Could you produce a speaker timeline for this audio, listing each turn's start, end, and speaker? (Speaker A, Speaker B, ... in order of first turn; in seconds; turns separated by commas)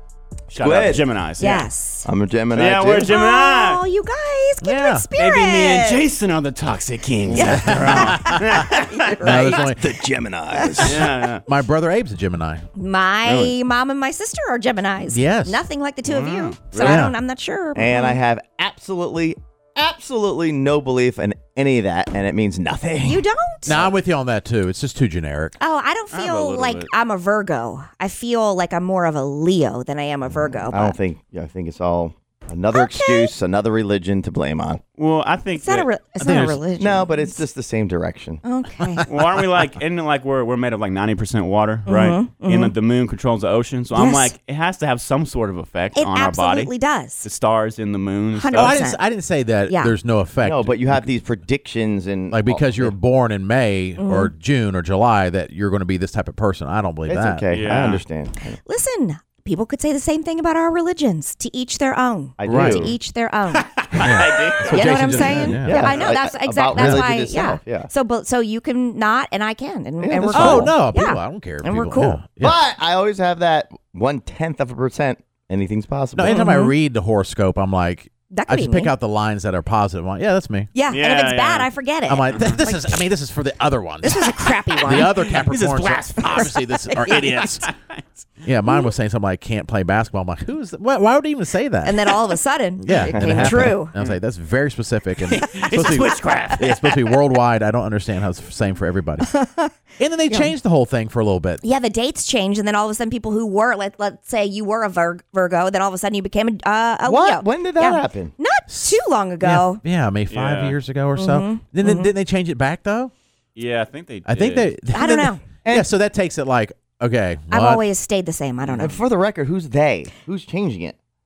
Speaker A: 0.5-1.7, Speaker B: 0.6-3.1, Speaker C: 1.4-2.1, Speaker A: 2.5-3.8, Speaker C: 3.1-6.0, Speaker D: 4.6-5.1, Speaker A: 5.2-9.1, Speaker C: 7.3-9.7, Speaker D: 7.4-8.2, Speaker D: 9.2-9.9, Speaker B: 9.3-11.1, Speaker A: 10.7-11.4, Speaker D: 10.8-12.7, Speaker C: 12.8-18.2, Speaker A: 13.2-13.6, Speaker D: 15.0-15.6, Speaker A: 16.0-17.0, Speaker D: 16.8-17.1, Speaker B: 17.8-23.9, Speaker C: 23.1-23.9, Speaker D: 23.7-25.6, Speaker C: 25.6-31.0, Speaker A: 26.1-26.9, Speaker B: 30.7-34.8, Speaker C: 32.7-33.3, Speaker A: 35.0-36.6, Speaker C: 35.6-37.4, Speaker B: 36.8-38.4, Speaker C: 38.4-39.1, Speaker A: 39.1-48.8, Speaker C: 41.9-42.7, Speaker C: 44.0-44.3, Speaker C: 46.0-47.3, Speaker C: 48.4-49.0, Speaker D: 48.5-51.1, Speaker C: 49.7-49.9, Speaker B: 50.4-53.0, Speaker D: 52.3-57.5, Speaker C: 54.0-54.3, Speaker B: 57.1-58.6, Speaker A: 57.5-58.0, Speaker C: 58.6-63.7, Speaker B: 62.4-63.0, Speaker D: 62.5-62.9, Speaker A: 63.8-66.0, Speaker D: 64.0-65.9, Speaker C: 64.6-72.2, Speaker B: 65.5-67.9, Speaker D: 66.8-67.1, Speaker B: 70.0-70.8, Speaker D: 70.3-72.6, Speaker B: 72.4-76.4, Speaker D: 76.2-80.7, Speaker C: 76.3-76.7, Speaker C: 78.3-78.9, Speaker C: 80.7-83.1, Speaker A: 80.9-81.7, Speaker D: 82.1-87.7, Speaker A: 82.3-82.6, Speaker C: 84.0-85.4, Speaker A: 85.3-88.0, Speaker C: 86.2-87.4, Speaker D: 88.4-92.2, Speaker C: 91.8-93.9, Speaker D: 92.8-99.3, Speaker B: 93.1-93.7, Speaker A: 95.3-96.8, Speaker C: 99.3-99.8, Speaker D: 100.0-101.6, Speaker C: 100.3-100.5, Speaker C: 101.6-109.8, Speaker B: 107.0-108.3, Speaker D: 108.7-113.1, Speaker A: 110.3-110.8, Speaker C: 111.2-112.1, Speaker A: 113.6-114.7, Speaker D: 114.3-117.9, Speaker C: 114.9-115.4, Speaker C: 117.5-119.0, Speaker B: 118.8-121.0